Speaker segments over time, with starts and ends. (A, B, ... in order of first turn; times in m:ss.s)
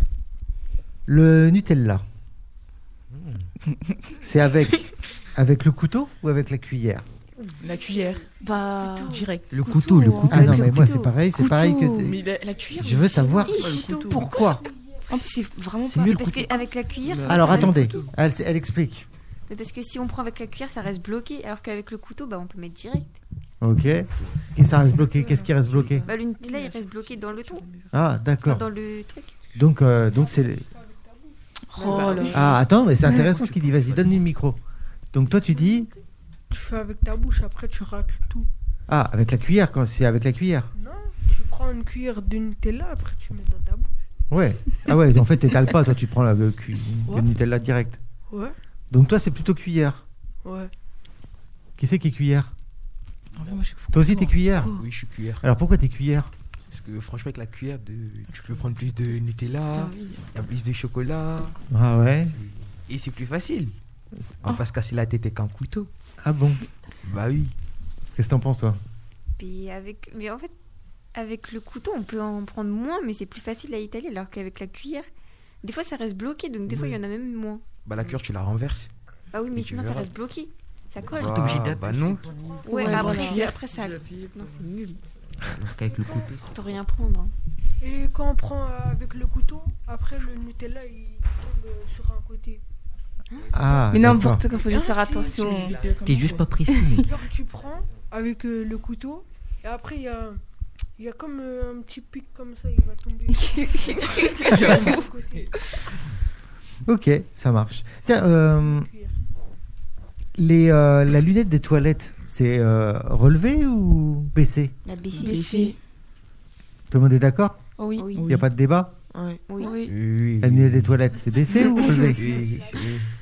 0:01.1-0:02.0 A
0:03.1-0:03.5 B
0:04.2-0:07.0 A
0:07.6-0:08.3 C
0:08.4-0:12.2 D
0:08.8-0:09.2 E
0:09.0-0:09.8 C
0:09.5-0:10.9 F
0:10.3-0:12.2 A
0:12.0-0:13.4 C
0:12.8-0:14.7 A
0:13.1-0:13.4 D
0:13.4-0:14.2 E
0:13.5-0:14.2 G
0:15.1-0:16.7 D
0:16.0-0:18.0 E
0:17.0-0:18.1 G
0:17.2-0:19.1 A
0:19.5-0:23.1 E
0:23.6-0:26.1 A
0:26.0-0:27.7 E
0:27.9-0:28.6 A
0:28.4-0:29.3 E
0:29.5-0:30.7 A
0:30.7-0:31.3 H
0:31.7-0:33.2 D
0:31.8-0:32.5 E
0:32.3-0:34.6 A
0:33.5-0:34.0 B
0:35.1-0:35.9 A
0:36.5-0:38.5 H
0:38.9-0:40.7 A
0:40.7-0:44.0 H
0:44.3-0:48.0 A
0:48.3-0:48.5 H
0:48.9-0:50.0 A
0:50.4-0:50.7 H
0:51.8-0:52.5 A
0:53.3-0:54.5 C
0:53.9-0:54.7 A
0:54.5-0:55.4 B
0:55.4-0:56.3 A
0:56.7-1:01.6 B
0:58.3-0:59.1 C
0:59.7-1:00.2 D
1:01.7-1:02.4 A
1:02.3-1:03.7 B
1:04.4-1:05.9 B
1:06.2-1:06.6 A
1:07.0-1:07.5 B
1:08.2-1:08.8 A
1:09.4-1:10.5 E
1:11.1-1:15.0 E
1:15.6-1:17.6 E
1:17.8-1:18.9 B
1:19.3-1:21.5 E
1:19.5-1:20.1 B
1:21.0-1:22.3 B
1:21.2-1:22.2 F
1:22.3-1:23.1 H
1:22.6-1:25.0 E
1:22.7-1:23.6 D
1:22.9-1:23.4 C
1:23.8-1:24.2 G
1:25.4-1:26.5 F
1:26.4-1:27.3 E
1:27.8-1:32.6 H
1:33.3-1:33.6 E
1:33.5-1:34.4 A
1:33.9-1:36.0 D
1:34.7-1:36.6 C
1:34.7-1:35.7 H
1:36.0-1:37.1 F
1:36.7-1:37.0 D
1:37.0-1:40.4 H
1:41.0-1:45.6 H
1:43.4-1:45.0 D
1:46.8-1:48.9 A
1:48.6-1:49.2 H
1:50.4-1:54.7 A
1:54.8-1:55.5 E
1:55.1-1:55.8 D
1:55.2-1:55.8 C
1:56.9-1:57.6 A
1:57.8-1:58.2 D
1:58.0-1:58.2 E
1:58.1-1:58.5 C
1:58.2-1:58.9 A
1:59.1-1:59.4 G
1:59.5-1:59.8 E
1:59.6-2:00.0 D
1:59.8-2:01.0 B
2:00.4-2:02.3 A
2:02.0-2:03.1 B